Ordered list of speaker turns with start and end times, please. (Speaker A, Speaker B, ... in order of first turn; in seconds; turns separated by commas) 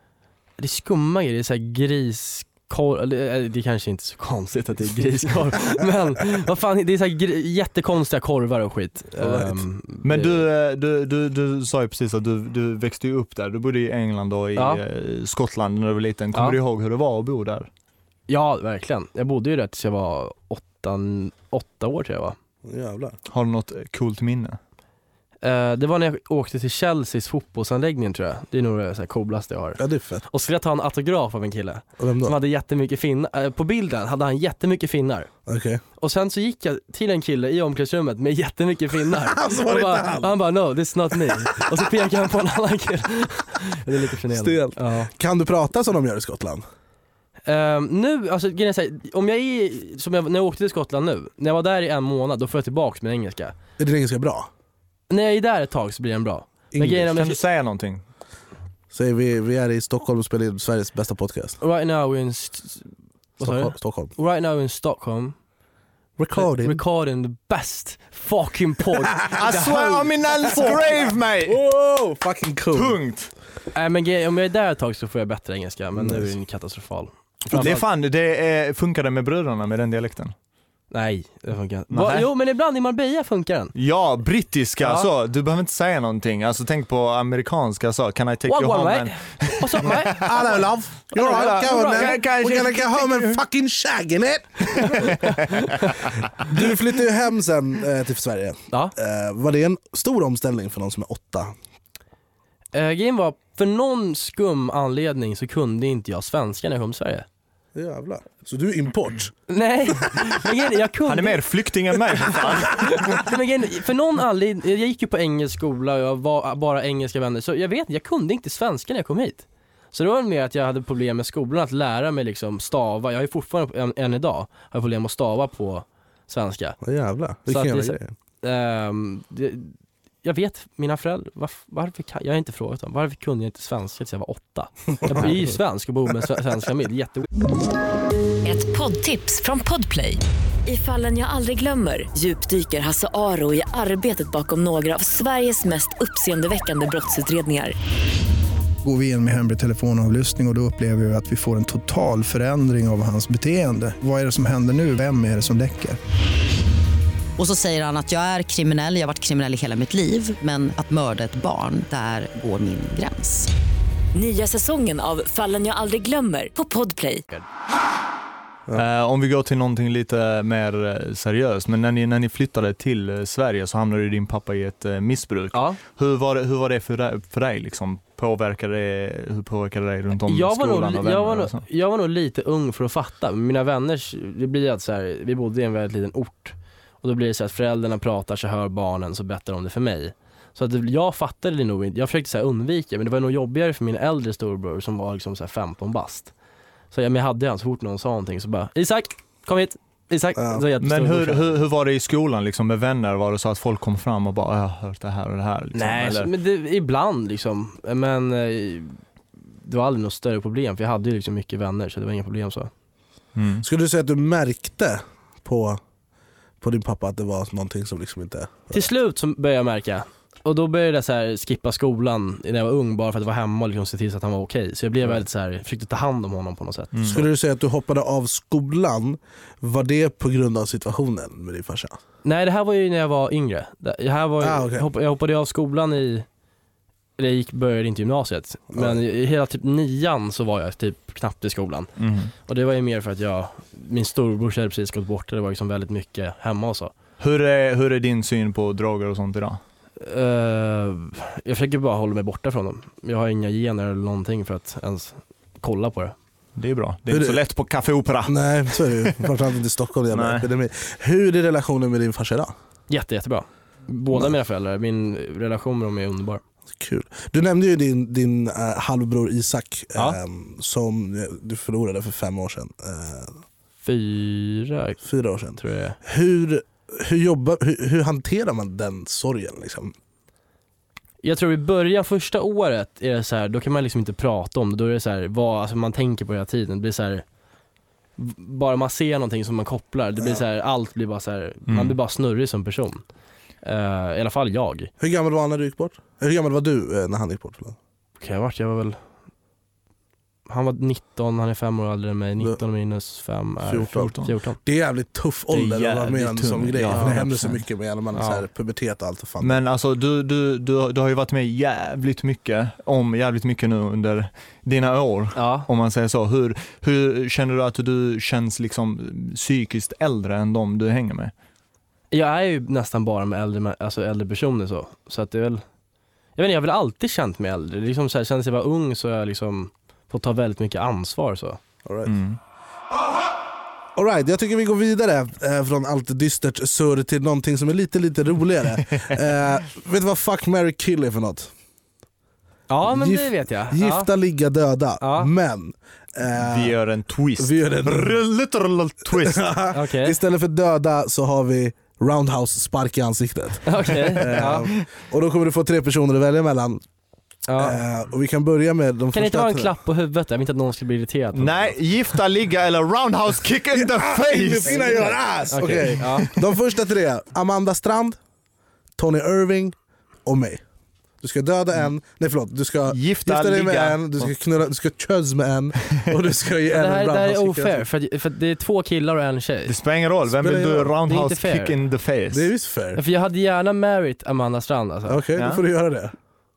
Speaker A: 0.6-10.4, Speaker B: 9.2-9.6, Speaker C: 10.0-17.7, Speaker A: 14.6-14.8, Speaker A: 18.3-22.4, Speaker B: 22.6-23.2, Speaker C: 23.3-24.6, Speaker A: 25.4-35.3, Speaker B: 29.8-30.2, Speaker B: 32.0-32.4, Speaker B: 35.5-35.8, Speaker A: 36.0-45.1, Speaker B: 39.1-40.4, Speaker B: 44.3-46.6, Speaker A: 47.5-53.5, Speaker B: 53.8-54.5, Speaker A: 55.1-57.4, Speaker B: 56.7-57.1, Speaker C: 57.1-58.0, Speaker B: 58.9-61.6, Speaker A: 61.6-62.9, Speaker B: 63.4-64.1, Speaker A: 63.4-65.3, Speaker B: 66.2-66.8, Speaker A: 66.4-70.7, Speaker C: 69.3-71.6, Speaker B: 70.5-70.8, Speaker B: 71.5-73.0, Speaker C: 72.7-73.3, Speaker A: 73.8-77.8, Speaker B: 76.0-76.3, Speaker C: 77.5-80.3, Speaker A: 80.9-83.7, Speaker C: 81.9-82.3, Speaker C: 83.8-90.3, Speaker A: 84.8-85.1, Speaker A: 88.5-90.3, Speaker B: 90.2-95.1, Speaker A: 91.1-92.2, Speaker C: 91.2-93.4, Speaker C: 94.8-95.7, Speaker A: 94.9-95.9, Speaker B: 96.5-101.5, Speaker A: 102.7-107.3, Speaker B: 107.8-109.3, Speaker A: 109.5-111.4, Speaker C: 111.1-113.3, Speaker A: 112.6-126.8, Speaker B: 126.8-128.1, Speaker A: 127.5-137.3, Speaker B: 135.1-135.3, Speaker D: 138.4-147.8, Speaker E: 148.8-156.0, Speaker F: 157.4-163.5, Speaker D: 164.1-167.3, Speaker C: 168.7-181.6, Speaker A: 175.5-175.8, Speaker A: 180.3-196.3, Speaker A: 196.9-201.5, Speaker B: 200.4-200.6, Speaker C: 200.8-206.3, Speaker A: 205.7-209.0, Speaker A: 209.6-212.7, Speaker C: 213.4-213.7, Speaker B: 213.6-215.8, Speaker B: 216.6-218.9, Speaker A: 218.7-227.2, Speaker C: 226.9-227.2, Speaker B: 227.1-232.0, Speaker A: 232.2-236.3, Speaker B: 234.4-234.9, Speaker A: 237.2-241.9, Speaker B: 238.7-239.0, Speaker C: 242.0-242.3, Speaker A: 242.5-246.9, Speaker C: 247.2-249.6, Speaker A: 250.0-256.1, Speaker C: 256.6-259.3, Speaker B: 257.1-257.4, Speaker B: 258.2-262.5, Speaker C: 260.1-260.5, Speaker A: 262.9-266.4, Speaker B: 266.7-273.4, Speaker A: 273.8-275.0, Speaker B: 275.0-279.9, Speaker A: 275.6-276.0, Speaker A: 281.2-287.2, Speaker A: 288.2-293.0, Speaker C: 291.7-292.0, Speaker A: 293.6-294.9, Speaker B: 295.0-297.8, Speaker A: 298.2-299.0, Speaker A: 300.5-304.6, Speaker B: 303.7-304.1, Speaker C: 303.9-304.3, Speaker B: 304.6-309.6, Speaker C: 305.5-307.6, Speaker A: 308.2-308.5, Speaker C: 309.4-321.3, Speaker A: 315.4-315.7, Speaker A: 322.1-325.6, Speaker A: 326.4-331.6, Speaker B: 331.9-332.1, Speaker C: 332.1-332.4, Speaker B: 334.0-341.5, Speaker A: 342.7-344.1, Speaker B: 342.8-346.8, Speaker A: 345.0-345.3, Speaker C: 346.3-349.5, Speaker B: 347.4-348.2, Speaker B: 349.1-356.8, Speaker A: 349.7-350.2, Speaker A: 353.7-354.7, Speaker A: 357.5-357.8, Speaker B: 357.6-359.7, Speaker A: 359.1-362.2, Speaker C: 361.4-365.1, Speaker B: 363.7-368.2, Speaker A: 365.5-366.3, Speaker B: 369.0-370.6, Speaker B: 371.2-377.9, Speaker C: 372.9-374.3, Speaker A: 376.7-379.7, Speaker C: 379.7-382.5, Speaker B: 380.3-380.9, Speaker A: 381.0-381.8, Speaker B: 382.3-383.0, Speaker A: 383.0-385.2, Speaker B: 385.1-386.1, Speaker C: 385.4-385.6